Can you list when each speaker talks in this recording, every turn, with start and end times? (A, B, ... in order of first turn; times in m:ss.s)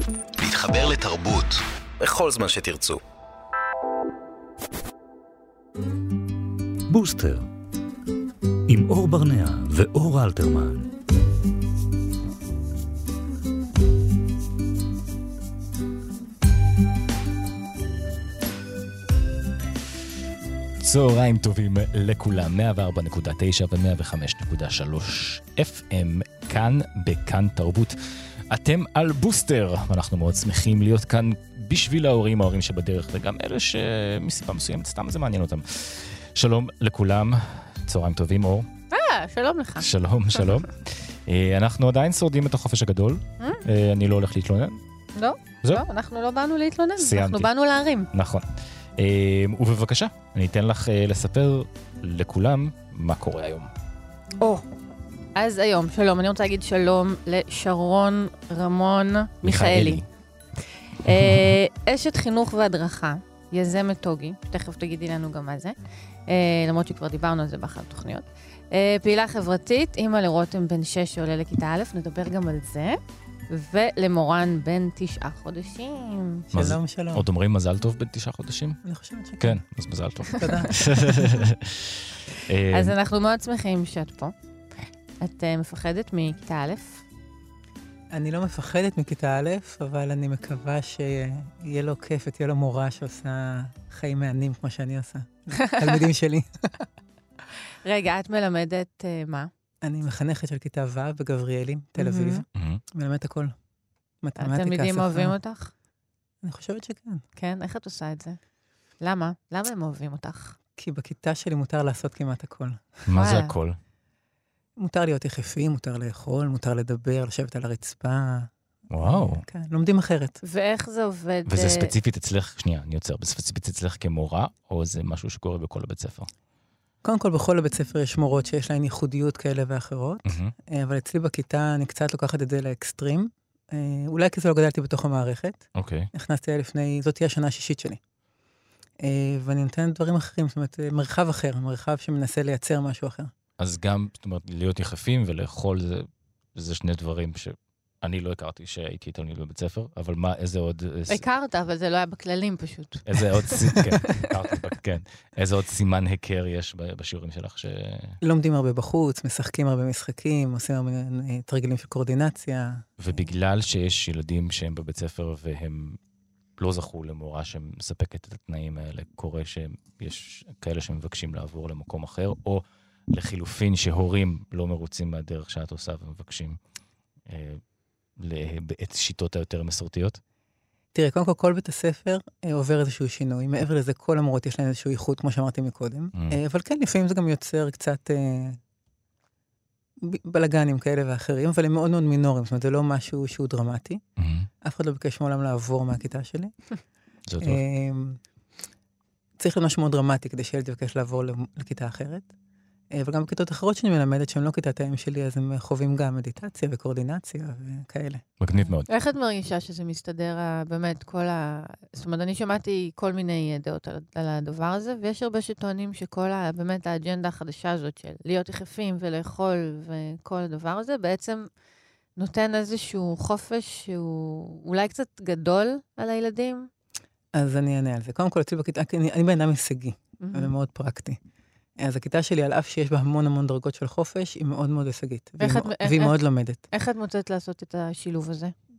0:00.4-0:03.0 A
0:06.9-0:07.5 B
0:08.7-0:10.9 B
0:20.8-0:28.0 C
0:28.5-0:38.7 C
0:38.9-0:39.9 D
0:39.8-0:44.8 C
0:45.2-0:48.1 D
0:47.0-0:47.5 C
0:48.1-0:53.7 C
0:55.4-1:00.0 D
0:59.4-1:00.0 C
1:01.0-1:05.8 D
1:01.1-1:01.5 C
1:06.3-1:16.5 D
1:16.5-1:17.3 E
1:16.5-1:18.8 C
1:18.8-1:19.6 E
1:19.4-1:23.0 C
1:20.3-1:21.3 E
1:22.7-1:24.3 D
1:25.2-1:27.0 D
1:28.1-1:36.5 E
1:35.6-1:36.0 D
1:37.8-1:39.5 D
1:39.8-1:43.6 E
1:42.0-1:42.4 D
1:42.6-1:42.8 C
1:44.2-1:45.4 E
1:44.4-1:45.7 D
1:46.4-1:47.2 E
1:47.4-1:48.4 D
1:49.0-1:50.6 D
1:50.8-1:52.9 E
1:53.1-1:53.8 C
1:53.1-1:53.6 D
1:54.8-2:00.4 E
1:58.9-1:59.4 C
2:00.4-2:01.9 D
2:01.5-2:06.3 C
2:07.0-2:18.0 E
2:10.3-2:10.5 C
2:15.8-2:16.1 C
2:19.0-2:23.3 E
2:23.6-2:31.2 C
2:31.1-2:33.0 D
2:33.1-2:38.2 C
2:33.7-2:34.0 E
2:38.2-2:43.2 E
2:43.0-2:46.0 C
2:46.6-2:56.6 C
2:57.3-2:57.6 C
2:58.2-3:00.2 C
3:00.9-3:08.6 E
3:10.0-3:14.0 E
3:14.2-3:14.5 C
3:14.6-3:16.5 E
3:17.3-3:17.6 C
3:17.4-3:18.2 E
3:19.4-3:22.3 E
3:22.9-3:28.2 E
3:28.4-3:28.9 C
3:28.9-3:41.5 D
3:42.2-3:46.7 D
3:47.3-3:51.2 E
3:50.2-3:50.5 D
3:51.8-3:56.6 E
3:55.4-3:56.2 D
3:56.7-3:58.5 D